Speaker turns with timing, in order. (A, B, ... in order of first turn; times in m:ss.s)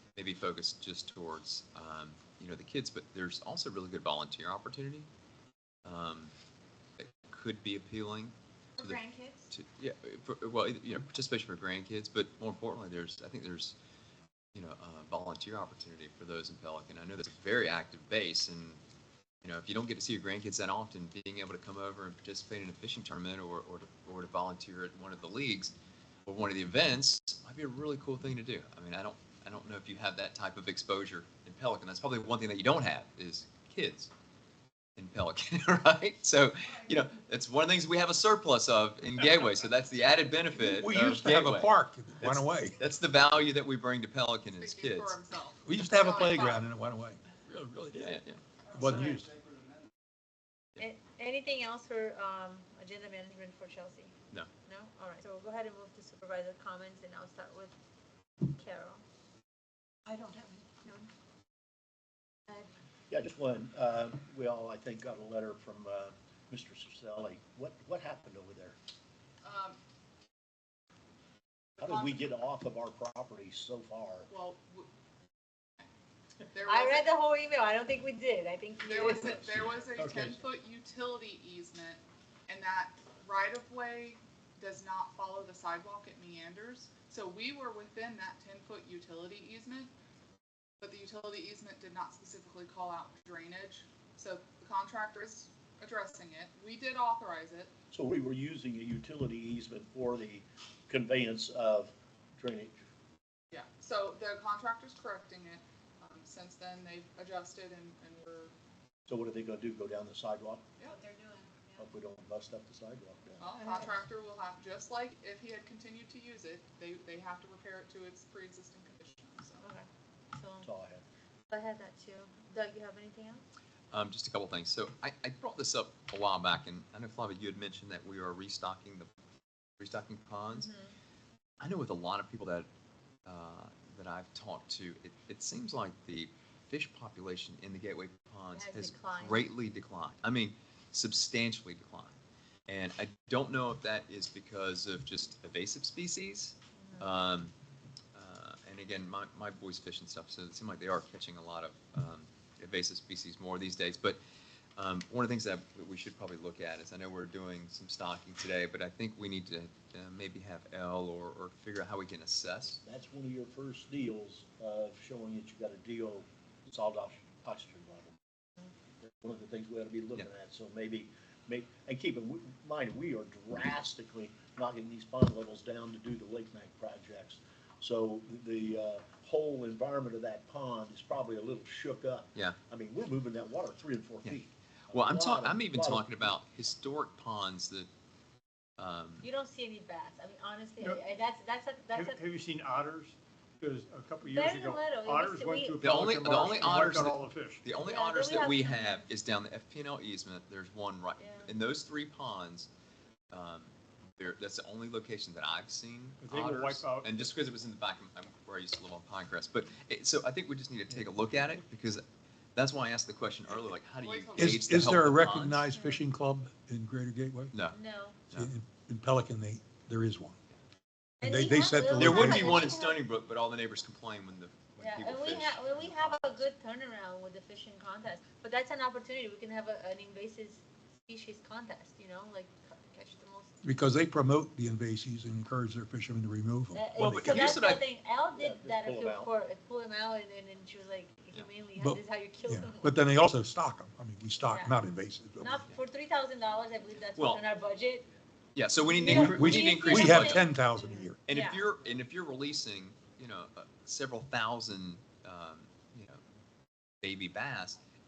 0:00.2-0:05.1 A
0:05.8-0:06.3 A
0:07.0-0:13.8 A
0:08.8-0:09.4 B
0:14.5-0:18.8 A
0:19.4-0:25.7 A
0:26.3-0:34.1 A
0:35.0-0:45.2 A
0:40.5-0:42.7 C
0:44.6-0:46.7 D
0:45.7-0:48.2 C
0:47.9-0:48.4 A
0:48.7-0:49.3 C
0:48.8-0:49.2 B
0:50.8-0:54.1 B
0:54.7-0:57.8 B
0:58.4-0:59.0 B
1:00.1-1:01.1 B
1:03.1-1:08.8 E
1:09.4-1:09.8 D
1:11.8-1:12.2 D
1:11.8-1:14.3 E
1:14.3-1:14.9 D
1:16.5-1:17.1 D
1:16.6-1:19.6 B
1:18.8-1:29.9 D
1:19.2-1:20.3 E
1:30.8-1:37.7 D
1:37.9-1:42.8 E
1:43.5-1:48.5 D
1:49.1-1:50.7 E
1:50.9-1:51.8 B
1:51.8-1:53.5 E
1:53.4-1:59.6 D
1:59.6-2:00.7 B
2:00.6-2:01.0 E
2:01.5-2:03.4 B
2:03.9-2:09.1 A
2:09.8-2:10.7 A
2:10.5-2:10.9 B
2:11.6-2:12.7 A
2:13.3-2:22.2 A
2:18.5-2:19.5 B
2:22.7-2:27.5 A
2:26.8-2:27.2 B
2:28.1-2:34.2 A
2:34.8-2:42.8 A
2:42.8-2:48.2 E
2:49.0-3:06.4 E
3:04.2-3:07.9 A
3:08.8-3:09.3 A
3:09.2-3:12.2 B
3:11.9-3:17.6 F
3:14.2-3:15.9 B
3:15.8-3:22.7 A
3:16.6-3:16.9 B
3:17.7-3:19.1 B
3:21.2-3:21.5 B
3:23.3-3:32.0 A
3:26.2-3:27.1 F
3:32.6-3:35.7 A
3:34.0-3:34.6 D
3:34.4-3:37.6 C
3:35.7-3:36.0 B
3:37.5-3:38.5 A
3:37.6-3:38.2 B
3:38.3-3:40.4 C
3:41.2-3:43.0 B
3:41.2-3:42.7 C
3:41.9-3:46.3 A
3:44.8-3:53.6 B
3:53.6-3:57.5 C
3:56.7-4:03.0 B
3:57.0-3:57.8 A
3:58.3-3:59.3 E
4:01.8-4:05.6 C
4:04.5-4:04.8 B
4:05.4-4:08.1 B
4:07.2-4:07.4 A
4:08.6-4:10.5 A
4:08.9-4:10.6 B
4:09.0-4:11.3 C
4:11.3-4:16.2 A
4:11.3-4:11.6 B
4:17.0-4:17.8 A